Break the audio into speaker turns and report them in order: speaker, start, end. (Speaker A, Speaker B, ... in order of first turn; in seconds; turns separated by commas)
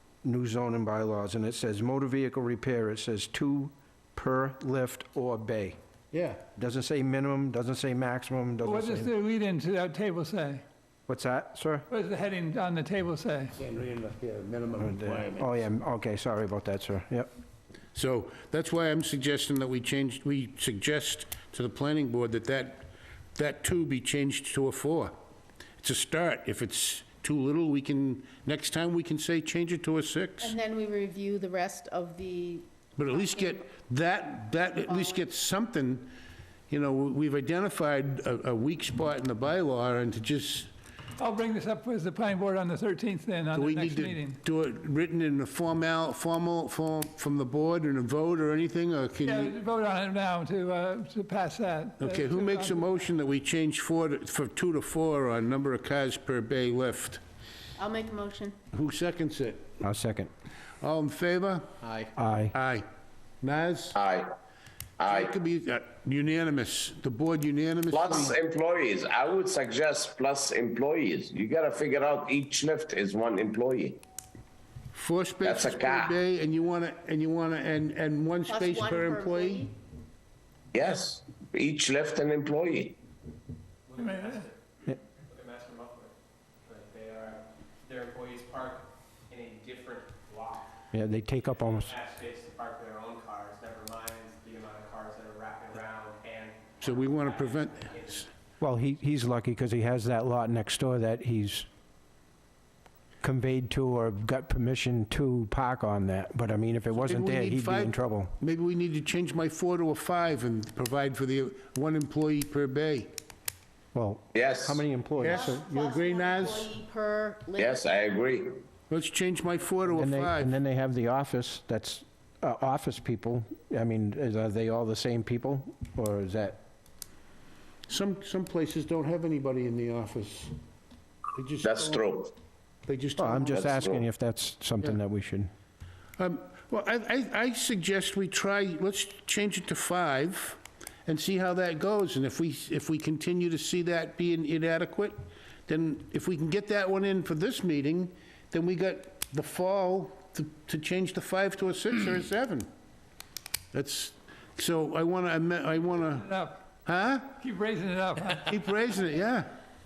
Speaker A: 0.2-5.8, Speaker B: 6.1-6.4, Speaker A: 6.5-9.1, Speaker C: 8.6-10.6, Speaker A: 11.1-11.9, Speaker C: 11.9-13.5, Speaker B: 13.6-15.6, Speaker A: 14.8-17.3, Speaker B: 17.9-25.1, Speaker B: 25.8-30.6, Speaker D: 30.4-33.6, Speaker B: 33.0-36.1, Speaker D: 34.9-35.3, Speaker B: 36.7-40.7, Speaker C: 41.2-44.4, Speaker B: 43.5-49.6, Speaker C: 49.2-52.8, Speaker B: 52.0-57.2, Speaker D: 57.8-58.6, Speaker B: 58.7-59.8, Speaker A: 59.8-60.3, Speaker B: 60.8-61.7, Speaker A: 62.1-62.5, Speaker B: 62.5-62.9, Speaker B: 63.4-64.0, Speaker E: 64.0-64.3, Speaker E: 65.0-65.3, Speaker B: 65.0-68.4, Speaker E: 67.9-74.0, Speaker B: 74.9-79.7, Speaker E: 75.4-76.2, Speaker D: 78.5-79.7, Speaker E: 80.7-83.0, Speaker F: 83.9-84.5, Speaker C: 84.0-84.5, Speaker F: 85.2-90.7, Speaker A: 90.9-92.0, Speaker F: 91.5-98.2, Speaker B: 96.8-98.3, Speaker A: 98.6-101.7, Speaker A: 103.2-108.3, Speaker B: 107.0-113.1, Speaker A: 113.9-115.7, Speaker E: 114.3-114.8, Speaker B: 115.2-116.7, Speaker D: 115.3-117.8, Speaker E: 117.6-118.6, Speaker B: 118.9-120.5, Speaker A: 119.9-126.6, Speaker B: 127.9-130.5, Speaker B: 131.3-132.0, Speaker E: 131.6-132.3, Speaker B: 132.9-133.8, Speaker A: 133.2-135.5, Speaker E: 133.5-134.0, Speaker B: 136.2-152.7, Speaker B: 153.7-156.3, Speaker C: 156.2-156.6, Speaker B: 156.9-157.4, Speaker C: 157.4-158.5, Speaker B: 158.5-159.5